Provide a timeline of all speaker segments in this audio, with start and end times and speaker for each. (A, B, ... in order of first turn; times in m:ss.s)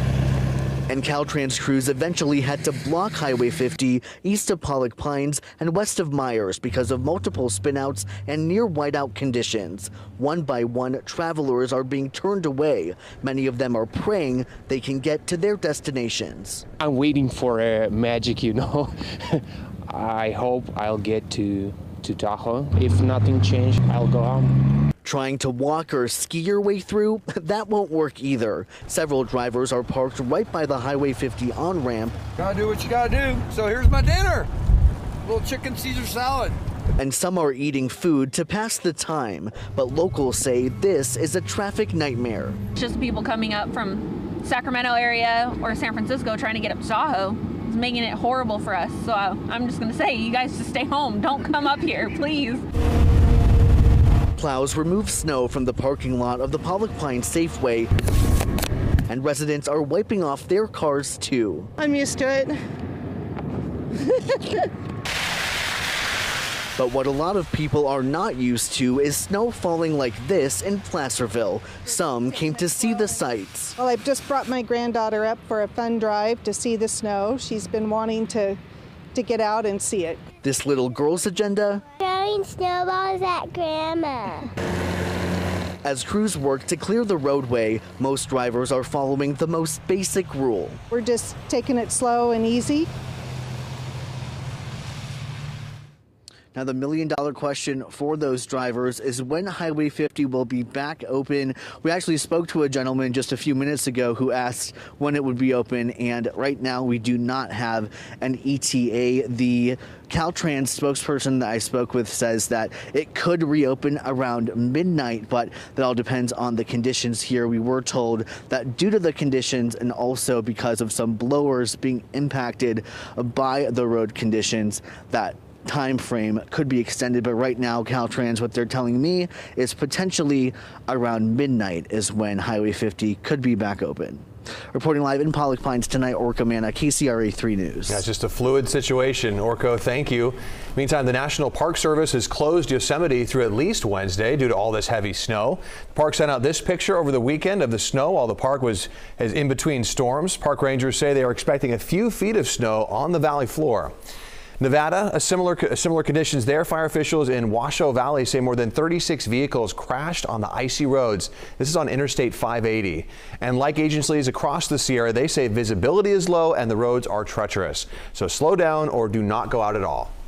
0:00.9-0:16.6 A
0:16.8-0:24.6 B
0:25.0-0:32.2 A
0:32.5-0:34.4 C
0:35.3-0:36.5 C
0:37.0-0:42.6 A
0:42.8-0:52.6 D
0:54.4-0:57.9 A
0:59.1-1:01.7 A
1:01.8-1:02.6 E
1:06.8-1:13.8 A
1:13.8-1:18.6 E
1:19.1-1:20.2 E
1:20.4-1:21.8 A
1:22.0-1:24.5 F
1:25.8-1:30.8 A
1:30.9-1:32.9 E
1:36.5-2:18.0 A
2:17.9-2:33.9 G
2:34.6-2:50.1 G